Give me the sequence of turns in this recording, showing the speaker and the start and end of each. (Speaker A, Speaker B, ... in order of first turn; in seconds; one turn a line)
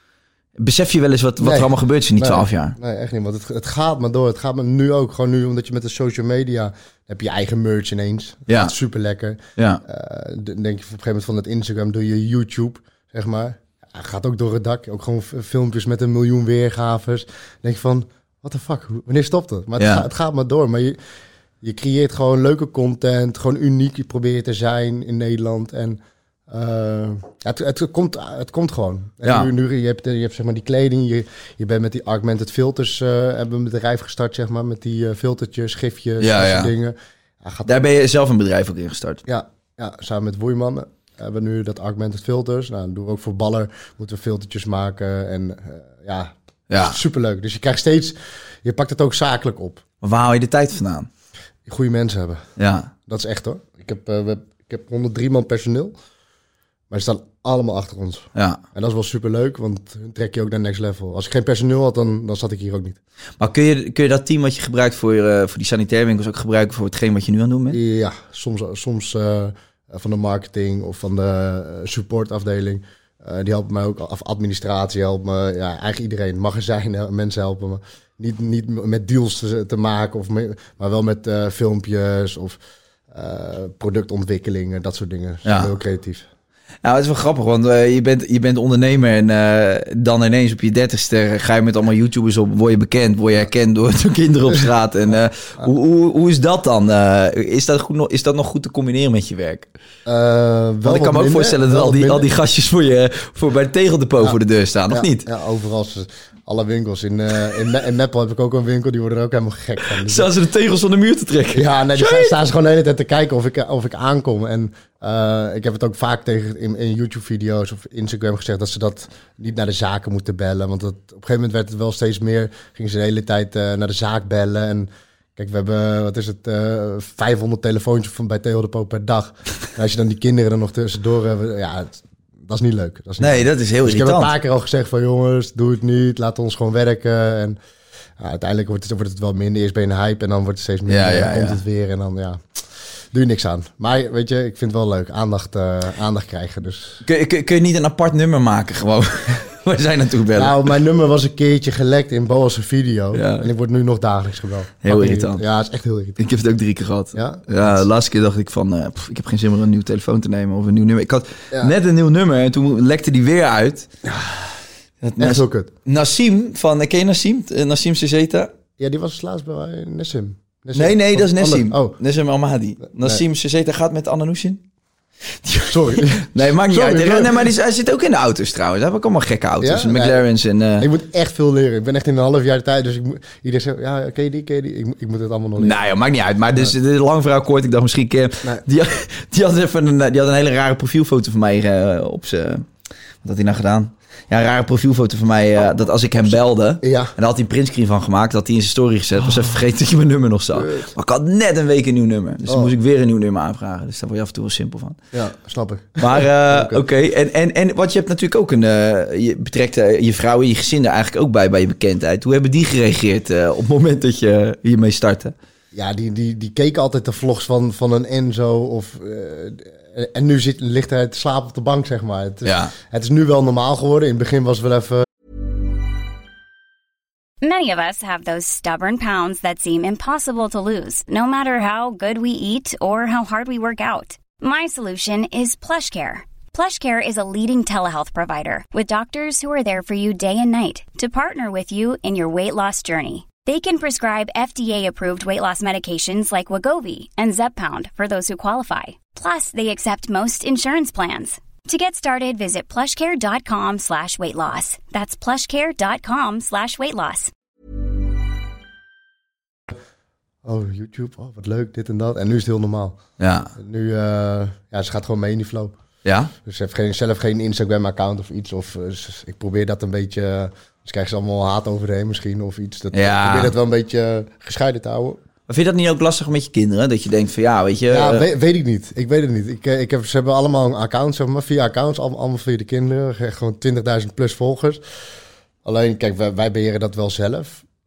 Speaker A: 0.6-2.8
Speaker B: 1.4-21.0
Speaker A: 8.5-8.7
Speaker A: 9.6-9.8
Speaker A: 19.8-20.1
Speaker B: 21.6-37.8
Speaker A: 29.2-29.5
Speaker A: 36.2-36.7
Speaker A: 37.6-39.2
Speaker B: 39.3-49.8
Speaker A: 46.7-47.0
Speaker A: 50.0-51.1
Speaker B: 51.6-52.4
Speaker A: 52.6-52.9
Speaker B: 53.1-55.9
Speaker B: 56.9-63.0
Speaker A: 58.3-58.6
Speaker A: 63.4-67.8
Speaker B: 67.7-82.6
Speaker B: 83.1-86.3
Speaker A: 85.4-85.7
Speaker A: 86.8-99.7
Speaker B: 100.0-102.3
Speaker A: 100.8-105.3
Speaker B: 104.9-110.3
Speaker A: 110.0-112.3
Speaker B: 111.5-137.6
Speaker A: 133.2-134.3
Speaker B: 138.2-142.4
Speaker A: 140.9-141.6
Speaker B: 143.1-147.0
Speaker A: 147.0-150.6
Speaker B: 150.3-156.2
Speaker A: 153.1-153.5
Speaker A: 154.8-155.4
Speaker A: 156.2-163.9
Speaker B: 157.1-157.8
Speaker B: 164.0-164.5
Speaker A: 165.0-168.5
Speaker B: 165.2-165.7
Speaker B: 168.8-171.9
Speaker A: 170.7-174.6
Speaker B: 172.9-173.2
Speaker A: 175.4-180.9
Speaker B: 175.6-177.5
Speaker B: 179.6-180.2
Speaker B: 180.8-185.8
Speaker A: 185.6-192.7
Speaker A: 193.2-205.0
Speaker B: 196.8-197.1
Speaker B: 200.5-200.9
Speaker B: 202.5-202.7
Speaker B: 205.1-206.8
Speaker A: 206.0-215.3
Speaker B: 215.7-225.1
Speaker A: 222.4-222.7
Speaker C: 227.4-257.3
Speaker B: 260.4-263.0
Speaker A: 263.2-263.5
Speaker B: 263.5-265.7
Speaker A: 266.0-266.3
Speaker B: 266.4-275.2
Speaker A: 272.9-273.5
Speaker A: 275.5-278.2
Speaker B: 277.9-284.8
Speaker B: 285.6-287.6